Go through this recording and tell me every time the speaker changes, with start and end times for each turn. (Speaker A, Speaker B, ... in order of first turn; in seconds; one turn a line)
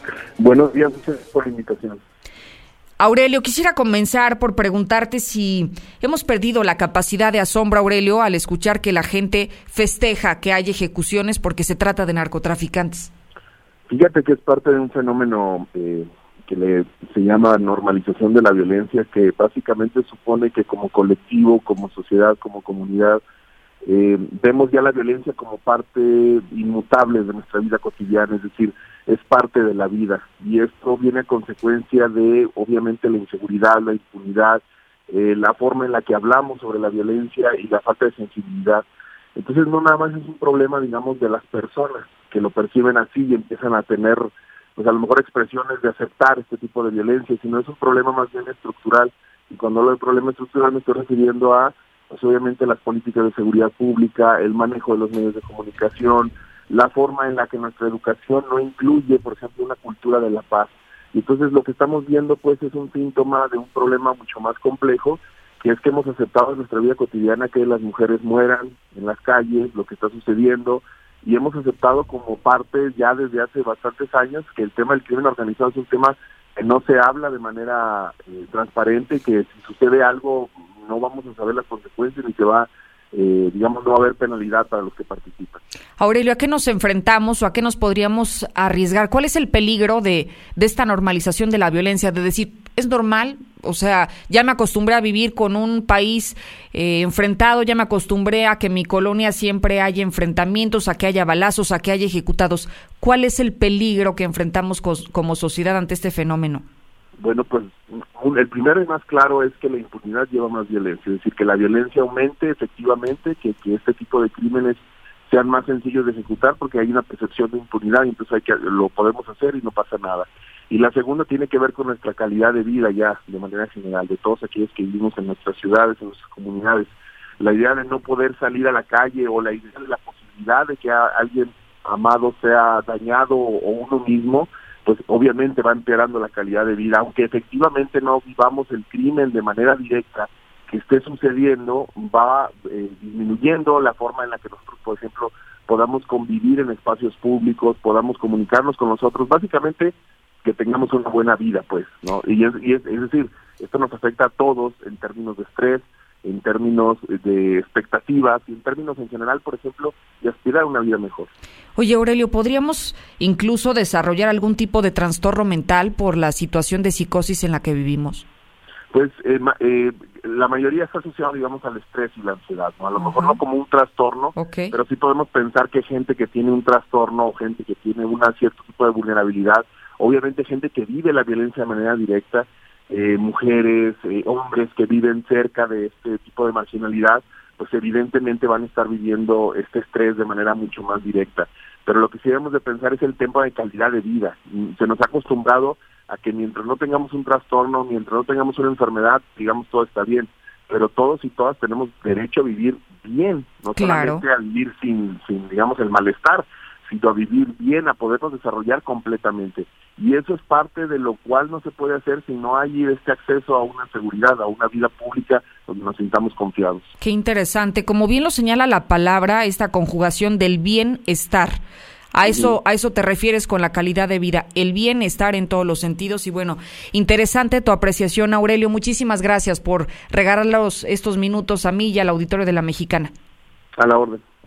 Speaker A: 0.4-2.0
Speaker B: 3.0-13.1
Speaker A: 13.9-23.2
Speaker A: 23.9-85.6
Speaker B: 86.0-106.6
Speaker A: 107.2-161.3
Speaker B: 161.8-168.2
Speaker A: 168.9-216.9
Speaker B: 173.0-173.4
Speaker B: 174.3-174.7
Speaker B: 203.8-204.2
Speaker B: 217.0-221.6
Speaker B: 222.1-233.1
Speaker A: 222.2-222.6
Speaker A: 233.8-234.2